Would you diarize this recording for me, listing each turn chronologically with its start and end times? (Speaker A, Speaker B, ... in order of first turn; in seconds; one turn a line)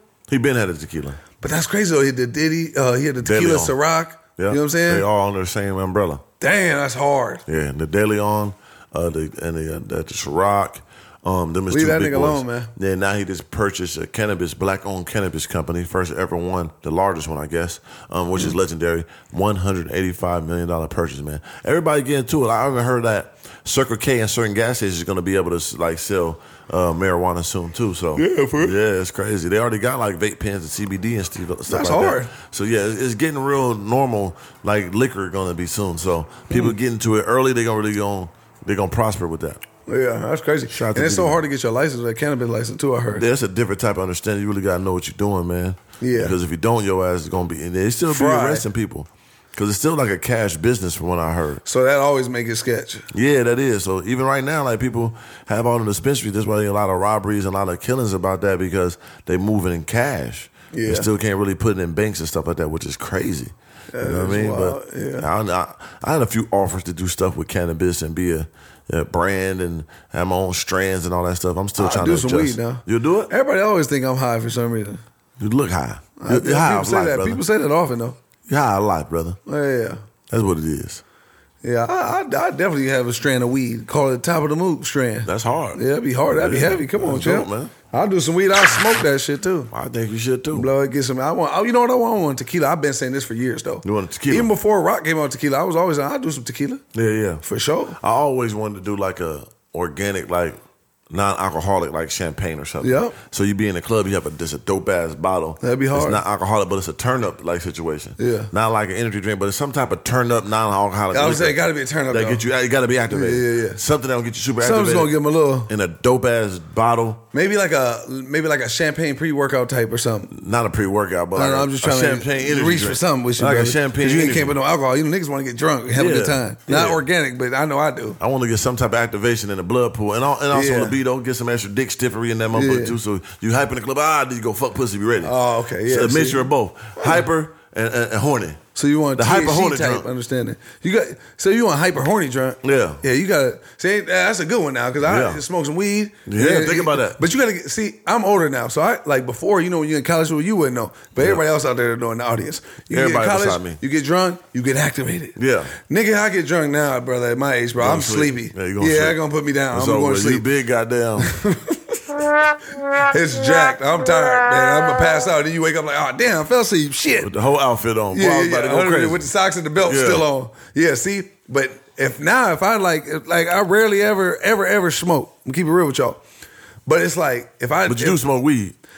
Speaker A: 0.3-1.2
Speaker B: 1.4-5.0
Speaker A: 3.2-3.7
Speaker A: 4.4-6.2
Speaker B: 6.4-7.4
Speaker A: 7.5-39.6
Speaker B: 11.7-12.7
Speaker B: 28.1-28.8
Speaker B: 31.7-32.3
Speaker B: 36.5-36.7
Speaker B: 39.9-43.2
Speaker A: 40.7-41.4
Speaker A: 43.1-51.6
Speaker B: 46.0-46.4
Speaker B: 48.1-48.6
Speaker B: 51.6-53.1
Speaker A: 53.1-73.3
Speaker B: 60.7-61.1
Speaker B: 63.9-65.3
Speaker B: 71.8-75.0
Speaker A: 75.4-77.4
Speaker B: 76.2-78.2
Speaker A: 78.5-79.4
Speaker B: 79.5-80.0
Speaker A: 80.3-81.0
Speaker B: 81.6-89.7
Speaker A: 85.2-87.7
Speaker A: 89.7-90.7
Speaker B: 90.5-96.8
Speaker A: 93.8-94.5
Speaker A: 96.9-97.4
Speaker B: 97.4-98.0
Speaker A: 98.0-100.6
Speaker A: 101.1-117.2
Speaker B: 102.8-103.1
Speaker B: 105.6-106.2
Speaker B: 108.2-108.5
Speaker B: 111.1-112.4
Speaker B: 113.1-113.8
Speaker B: 114.6-115.7
Speaker B: 117.3-120.3
Speaker A: 120.3-124.5
Speaker B: 121.3-128.2
Speaker A: 125.9-127.0
Speaker A: 128.2-138.6
Speaker B: 130.5-130.9
Speaker B: 132.5-132.9
Speaker B: 135.2-136.4
Speaker B: 137.0-137.2
Speaker B: 138.7-160.4
Speaker A: 139.1-140.1
Speaker A: 142.6-143.0
Speaker A: 145.0-145.4
Speaker A: 146.2-147.2
Speaker A: 151.2-151.4
Speaker A: 152.9-153.8
Speaker A: 155.3-155.7
Speaker A: 157.8-159.2
Speaker A: 159.7-161.3
Speaker B: 161.2-162.0
Speaker B: 162.9-167.3
Speaker A: 167.2-169.2
Speaker B: 168.1-176.2
Speaker A: 169.8-170.2
Speaker B: 176.8-178.2
Speaker A: 177.8-178.7